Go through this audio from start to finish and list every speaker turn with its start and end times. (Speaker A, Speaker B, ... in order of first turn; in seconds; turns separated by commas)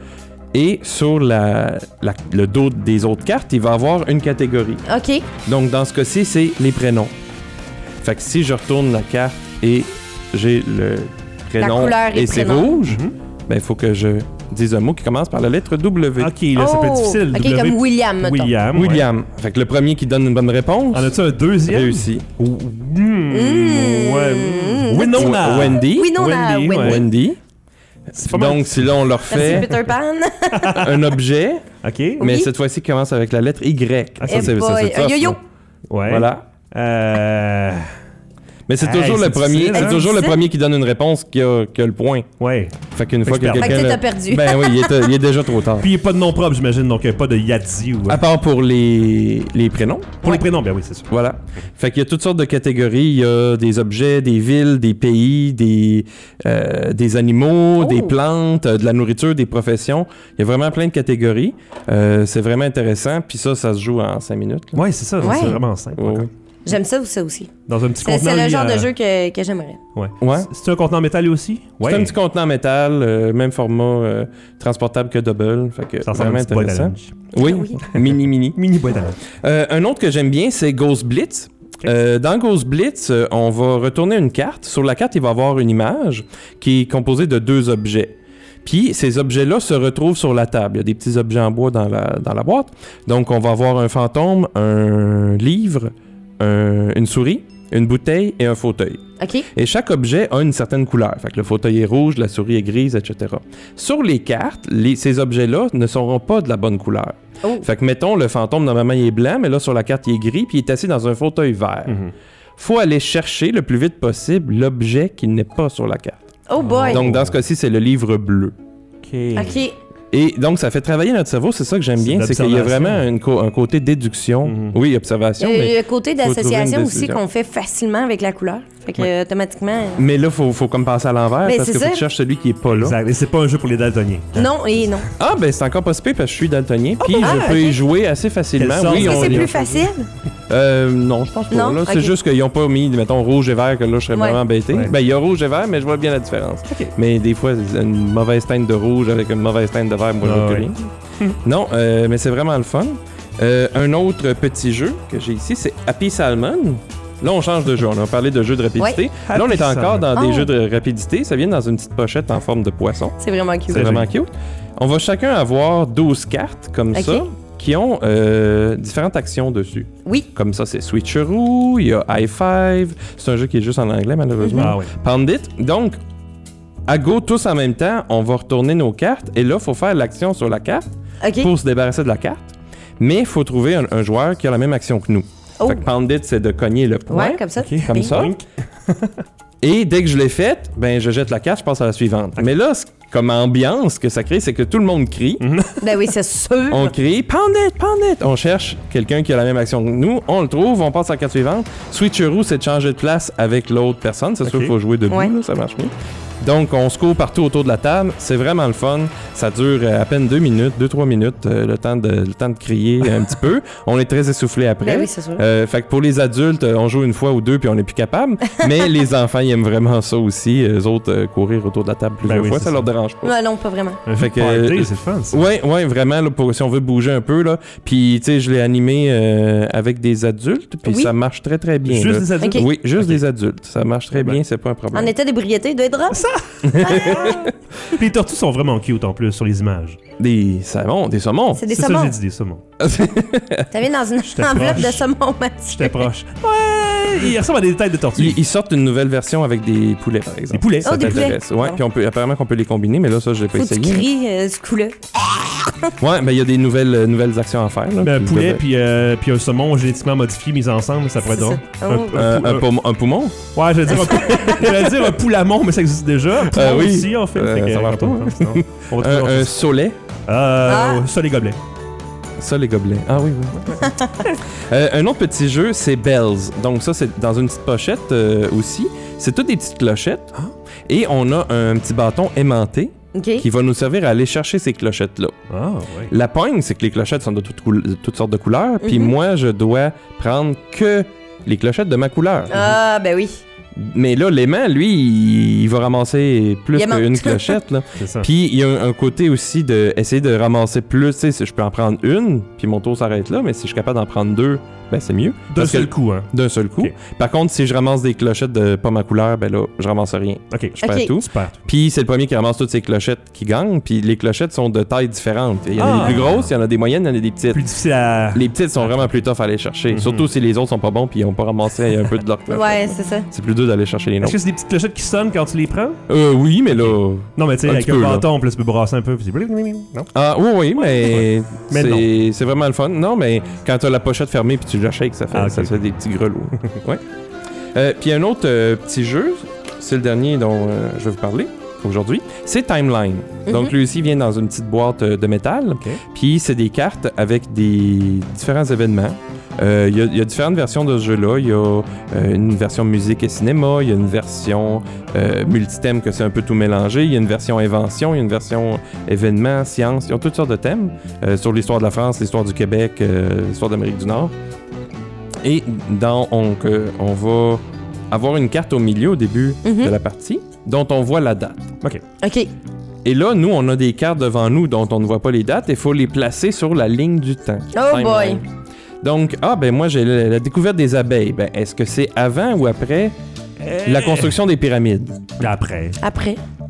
Speaker A: 0.5-4.8, Speaker B: 4.9-5.3, Speaker A: 5.4-7.1, Speaker A: 8.0-16.3, Speaker B: 11.6-12.8, Speaker C: 12.9-13.1, Speaker C: 16.2-19.1, Speaker B: 16.6-18.6, Speaker A: 18.7-22.3, Speaker C: 20.9-27.0, Speaker B: 23.3-27.1, Speaker A: 25.1-26.2, Speaker A: 26.8-27.4, Speaker A: 28.1-29.7, Speaker C: 28.1-29.8, Speaker B: 29.3-31.1, Speaker C: 30.5-30.9, Speaker A: 30.7-31.7, Speaker C: 31.8-32.3, Speaker A: 32.2-35.4, Speaker B: 32.2-32.5, Speaker C: 34.2-34.6, Speaker B: 34.3-35.4, Speaker C: 35.9-37.9, Speaker A: 36.1-36.5, Speaker A: 38.7-42.3, Speaker C: 38.8-40.0, Speaker B: 39.7-40.4, Speaker C: 42.4-43.9, Speaker A: 42.9-45.9, Speaker B: 43.5-45.1, Speaker C: 45.8-48.2, Speaker A: 48.1-50.4, Speaker C: 50.2-51.1, Speaker A: 51.1-66.3, Speaker B: 57.8-58.1, Speaker C: 64.8-66.3, Speaker B: 65.2-65.6, Speaker B: 66.7-67.5, Speaker C: 67.7-68.9, Speaker B: 68.0-69.8, Speaker C: 70.0-72.2, Speaker A: 70.2-70.5, Speaker A: 71.8-78.6, Speaker C: 76.0-77.2, Speaker B: 77.4-77.8, Speaker C: 77.9-79.2, Speaker A: 79.4-112.0, Speaker B: 99.2-99.5, Speaker C: 111.9-112.1, Speaker A: 112.6-116.2, Speaker B: 116.5-117.0, Speaker C: 116.6-117.4, Speaker A: 116.9-118.6, Speaker C: 119.0-119.6, Speaker B: 119.4-119.8, Speaker A: 120.1-127.2, Speaker C: 122.0-123.1, Speaker C: 124.4-124.8, Speaker B: 125.4-130.1, Speaker A: 130.0-133.0, Speaker B: 131.4-132.0, Speaker C: 132.7-134.5, Speaker B: 134.3-135.1, Speaker A: 135.2-139.5, Speaker C: 137.0-137.6, Speaker B: 137.2-137.8, Speaker C: 138.6-139.9, Speaker B: 138.9-140.1, Speaker A: 140.5-150.9, Speaker B: 141.5-142.2, Speaker B: 144.1-144.4, Speaker C: 150.2-151.4, Speaker A: 151.4-163.2, Speaker C: 159.2-160.1, Speaker B: 160.2-160.5, Speaker B: 163.2-164.1, Speaker A: 163.7-176.0, Speaker B: 166.9-167.3, Speaker B: 174.4-174.8, Speaker C: 174.6-174.9, Speaker A: 176.9-180.9, Speaker B: 181.2-181.5, Speaker A: 181.4-188.3, Speaker B: 187.1-188.2, Speaker C: 187.6-189.2, Speaker A: 189.6-195.4, Speaker C: 195.4-196.1, Speaker B: 195.8-196.9, Speaker A: 196.7-223.3, Speaker C: 204.4-204.7, Speaker B: 214.8-215.4, Speaker C: 222.2-222.9, Speaker B: 223.2-224.0, Speaker C: 224.1-225.4, Speaker A: 224.2-235.1, Speaker B: 230.9-231.1, Speaker C: 231.9-233.2, Speaker B: 232.4-232.7, Speaker C: 234.2-234.4, Speaker B: 234.9-236.2, Speaker C: 236.1-240.0, Speaker A: 236.6-237.5, Speaker B: 236.8-237.5, Speaker A: 240.2-241.7, Speaker B: 241.6-242.2, Speaker C: 241.7-242.6, Speaker A: 242.8-243.7, Speaker B: 243.7-246.1, Speaker C: 244.2-245.0, Speaker C: 245.7-248.4, Speaker A: 248.2-254.1, Speaker C: 250.5-251.3, Speaker B: 250.8-251.8, Speaker B: 253.6-255.9, Speaker A: 256.0-258.6, Speaker C: 258.0-262.6, Speaker B: 261.3-262.2, Speaker A: 262.1-263.4, Speaker C: 263.6-269.6, Speaker A: 264.0-264.9, Speaker B: 264.1-264.7, Speaker A: 266.4-270.0, Speaker C: 270.3-271.6, Speaker B: 270.7-271.0, Speaker A: 272.4-280.3, Speaker B: 273.9-274.1, Speaker A: 280.9-285.4, Speaker B: 283.1-283.4, Speaker C: 285.5-286.1, Speaker A: 286.1-292.6, Speaker B: 288.8-289.1, Speaker B: 292.5-293.4, Speaker A: 293.8-317.6, Speaker B: 296.8-297.6, Speaker C: 298.0-298.3, Speaker C: 305.5-306.9, Speaker C: 310.5-311.6, Speaker B: 310.8-311.1, Speaker C: 315.8-316.5, Speaker C: 317.5-319.1, Speaker A: 318.3-324.4, Speaker C: 319.9-320.3, Speaker B: 322.5-323.3, Speaker C: 324.2-326.0, Speaker A: 326.1-328.3, Speaker C: 326.8-330.1, Speaker A: 330.1-337.0, Speaker C: 330.9-332.1, Speaker C: 335.3-335.8, Speaker A: 337.7-364.3, Speaker B: 343.5-343.7, Speaker A: 365.4-371.8, Speaker B: 369.6-369.9, Speaker B: 372.2-372.5, Speaker A: 373.1-378.4, Speaker B: 377.7-378.4, Speaker A: 379.0-383.2, Speaker C: 383.6-384.4, Speaker A: 383.8-385.2, Speaker C: 385.4-386.0, Speaker B: 386.0-386.4